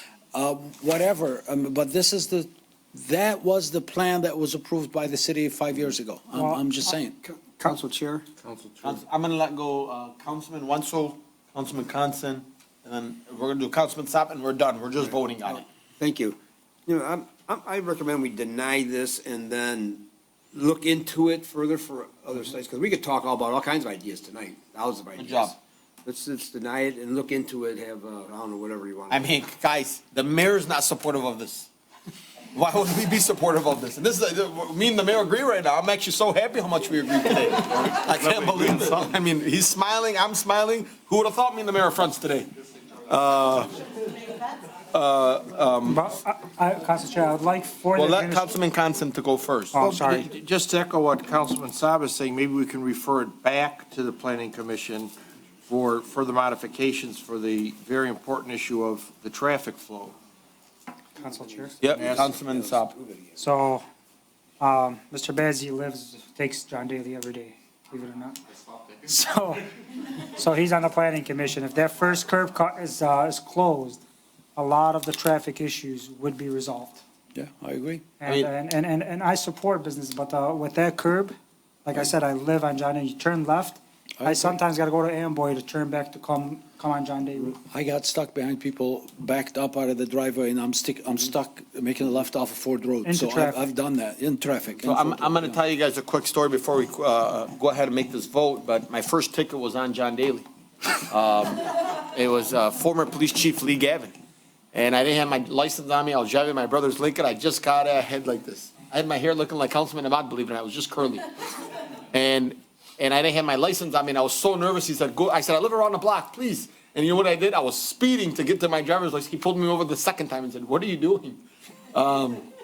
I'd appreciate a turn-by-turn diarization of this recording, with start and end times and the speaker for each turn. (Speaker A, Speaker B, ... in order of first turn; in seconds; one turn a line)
Speaker A: 0.3-7.2
Speaker B: 6.3-6.6
Speaker C: 7.2-9.0
Speaker D: 8.8-15.7
Speaker C: 15.5-29.3
Speaker D: 25.2-25.5
Speaker D: 29.1-31.7
Speaker D: 32.5-42.5
Speaker E: 37.9-39.0
Speaker D: 43.1-43.8
Speaker D: 44.9-46.0
Speaker B: 45.9-48.6
Speaker D: 48.0-49.9
Speaker B: 49.7-50.3
Speaker E: 49.8-55.1
Speaker E: 55.7-60.2
Speaker B: 61.2-61.8
Speaker C: 61.2-63.4
Speaker D: 61.8-62.9
Speaker B: 63.4-63.8
Speaker B: 64.6-68.4
Speaker B: 69.0-69.6
Speaker B: 70.3-74.0
Speaker B: 74.6-77.0
Speaker A: 77.3-78.1
Speaker B: 78.2-87.6
Speaker A: 84.2-84.6
Speaker A: 87.5-95.6
Speaker B: 93.0-93.6
Speaker D: 94.8-100.5
Speaker D: 101.1-104.2
Speaker D: 104.7-111.3
Speaker D: 112.1-121.4
Speaker D: 121.9-122.5